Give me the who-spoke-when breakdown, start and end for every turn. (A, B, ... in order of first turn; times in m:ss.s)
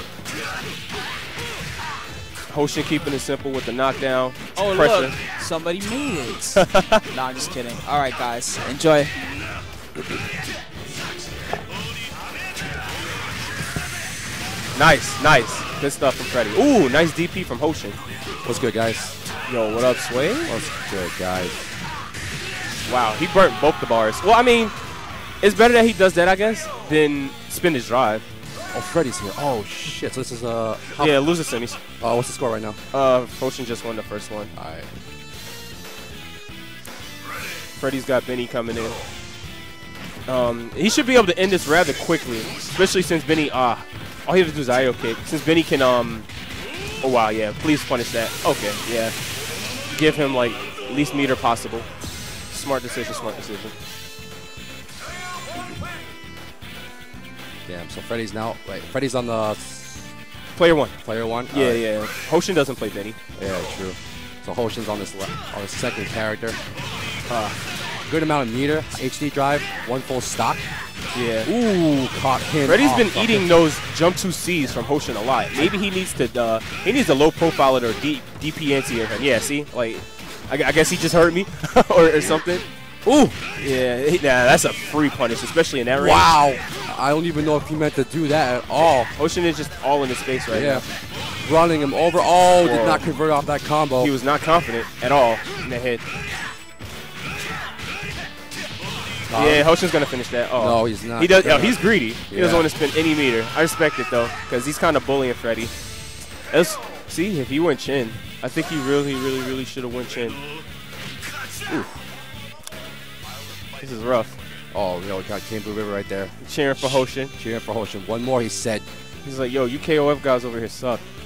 0:02.5-0:05.1 A
0:04.6-0:09.2 B
0:06.6-0:07.0 A
0:14.7-0:18.0 A
0:18.4-0:19.2 C
0:19.5-0:20.5 A
0:20.4-0:21.6 C
0:22.8-0:24.7 A
0:25.4-0:28.2 A
0:28.7-0:31.3 C
0:31.0-0:31.8 A
0:32.0-0:32.8 C
0:32.9-0:34.5 A
0:34.5-0:35.0 C
0:37.8-0:39.0 A
0:40.3-0:46.3 A
0:47.0-0:49.2 A
0:49.9-0:51.8 A
0:52.5-0:53.7 A
0:57.6-1:00.1 C
1:00.6-1:01.0 A
1:01.0-1:01.8 C
1:01.5-1:03.2 A
1:03.4-1:06.6 C
1:07.3-1:07.6 A
1:08.0-1:10.7 C
1:11.1-1:11.5 A
1:11.4-1:13.5 C
1:12.6-1:22.6 A
1:23.0-1:23.4 C
1:23.6-1:26.3 A
1:25.9-1:29.1 C
1:29.2-1:30.8 A
1:30.5-1:30.9 C
1:31.4-1:34.1 C
1:32.6-1:33.1 A
1:34.0-1:36.0 A
1:39.2-1:39.7 C
1:39.4-1:45.7 A
1:40.6-1:42.7 C
1:46.5-1:50.4 A
1:53.8-1:54.4 A
1:54.7-1:58.9 C
1:56.4-1:57.3 A
1:59.2-2:01.0 A